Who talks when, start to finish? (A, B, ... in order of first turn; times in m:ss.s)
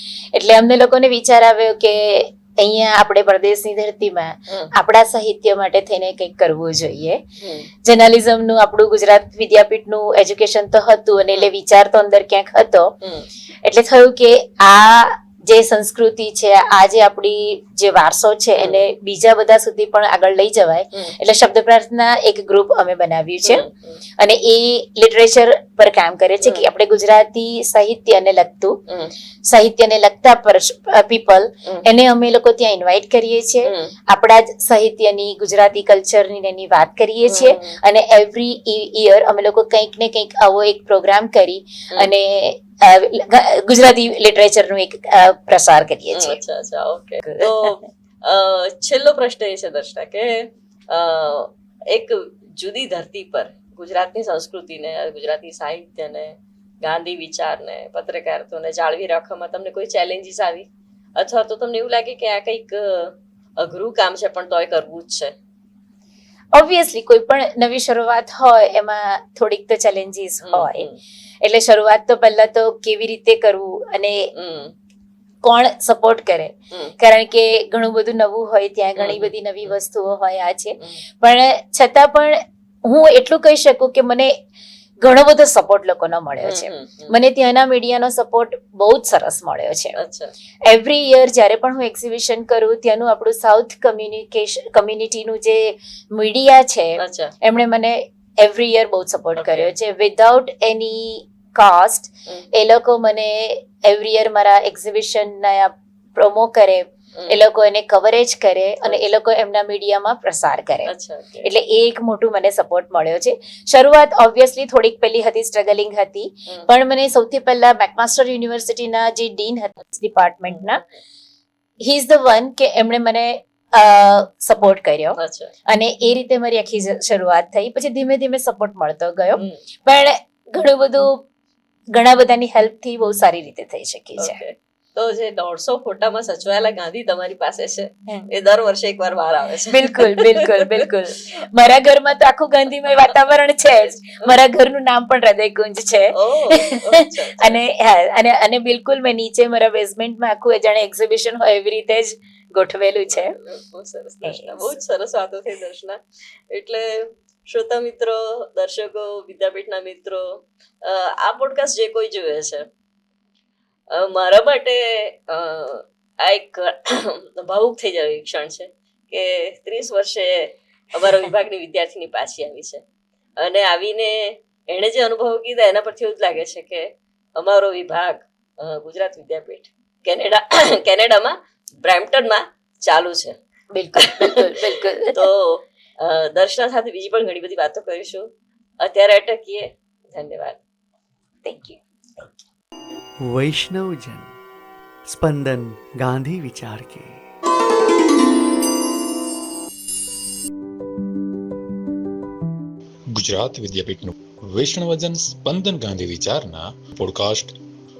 0:00.3-0:07.2 A
0:07.4-0:07.7 B
0:07.8-0:12.9 A
0:13.0-0:13.3 B
0:13.6-0:23.6 A
0:18.6-0:18.9 B
0:23.4-0:23.9 B
0:24.2-0:28.8 A
0:28.9-0:29.1 B
0:29.5-0:46.4 A
0:33.6-0:33.9 B
0:37.2-0:37.8 B
0:46.1-1:00.6 B
0:47.2-0:47.7 A
1:01.2-1:05.3 B
1:06.5-1:10.9 A
1:10.4-1:11.0 B
1:11.4-1:14.3 A
1:14.3-1:14.7 B
1:15.4-1:24.3 A
1:19.0-1:19.8 B
1:25.0-1:30.0 A
1:26.4-1:27.1 B
1:30.0-1:30.3 B
1:30.7-1:50.9 A
1:37.0-1:37.3 B
1:39.4-1:39.7 B
1:47.2-1:47.4 B
1:50.8-1:51.5 B
1:51.4-2:00.8 A
2:00.5-2:00.9 B
2:01.8-2:05.2 A
2:05.2-2:05.5 B
2:05.7-2:11.2 A
2:11.9-2:14.4 A
2:14.2-2:20.9 B
2:19.7-2:33.3 A
2:23.8-2:24.4 B
2:26.1-2:27.6 B
2:33.1-2:42.6 B
2:34.2-2:34.8 A
2:43.9-2:52.8 B
2:53.4-3:03.4 B
3:03.7-3:05.3 A
3:04.0-3:04.4 B
3:05.1-3:08.2 B
3:08.8-3:10.6 B
3:11.4-3:12.4 A
3:13.2-3:14.3 C
3:15.1-3:17.2 C
3:23.1-3:27.5 D